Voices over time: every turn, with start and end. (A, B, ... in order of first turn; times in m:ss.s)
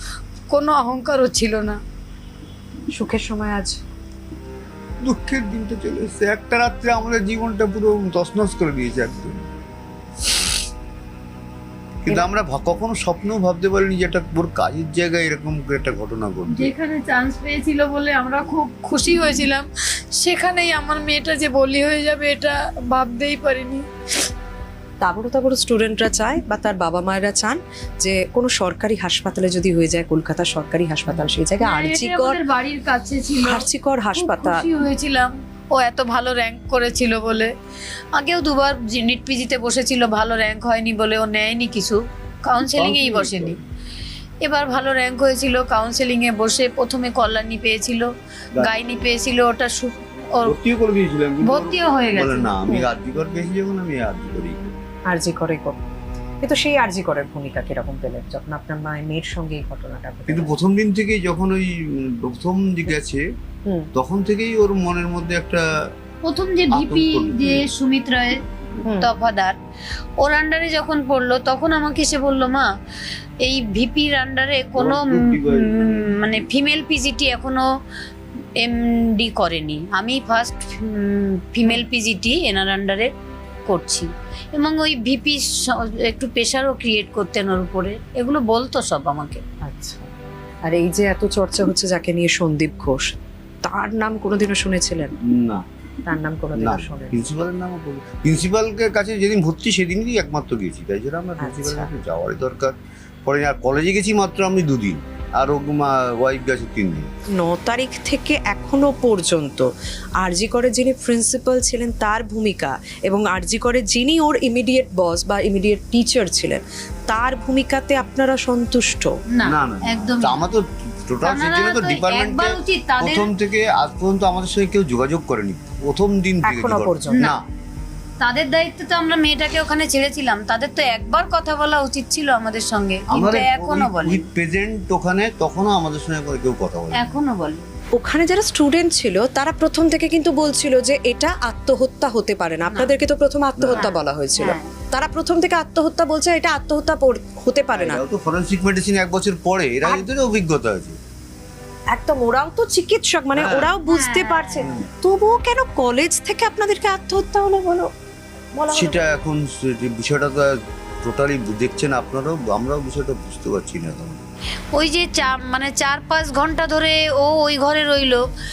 0:00.5-0:01.8 A
0:02.9-0:03.8 B
0:05.0-0:09.4 C
0:12.0-0:16.7 C
0:16.5-0:23.9 A
0:25.0-0:32.4 B
0:31.6-0:37.5 A
0:33.4-0:34.6 B
0:38.2-0:43.6 A
0:42.7-0:43.6 C
0:44.4-0:50.6 A
0:50.4-0:54.7 C
0:51.4-0:52.5 A
0:55.1-0:55.8 B
0:56.4-1:00.6 B
1:00.3-1:03.2 C
1:04.0-1:05.7 C
1:06.3-1:08.4 A
1:06.7-1:07.7 C
1:09.0-1:09.6 A
1:10.2-1:12.7 A
1:13.4-1:17.7 A
1:14.8-1:16.1 C
1:18.6-1:23.1 A
1:23.7-1:29.4 A
1:29.6-1:30.1 B
1:30.6-1:35.1 B
1:35.2-1:35.6 C
1:36.1-1:37.3 B
1:36.6-1:42.8 C
1:41.4-1:41.9 B
1:43.3-1:47.1 C
1:47.4-1:49.7 B
1:50.2-1:59.1 B
1:59.3-2:00.5 A
1:59.5-2:07.4 C
2:01.2-2:03.3 A
2:06.4-2:07.3 B
2:07.1-2:07.4 A
2:08.2-2:14.3 A
2:13.1-2:17.1 C
2:17.0-2:17.7 A
2:17.9-2:28.0 B
2:22.7-2:22.9 A
2:23.6-2:23.9 C
2:23.8-2:24.7 A
2:27.7-2:31.0 C
2:31.9-2:37.9 B
2:33.3-2:33.7 C
2:33.8-2:34.6 A
2:34.6-2:34.9 C
2:38.6-2:39.0 B
2:38.7-2:44.2 C
2:44.7-2:48.2 A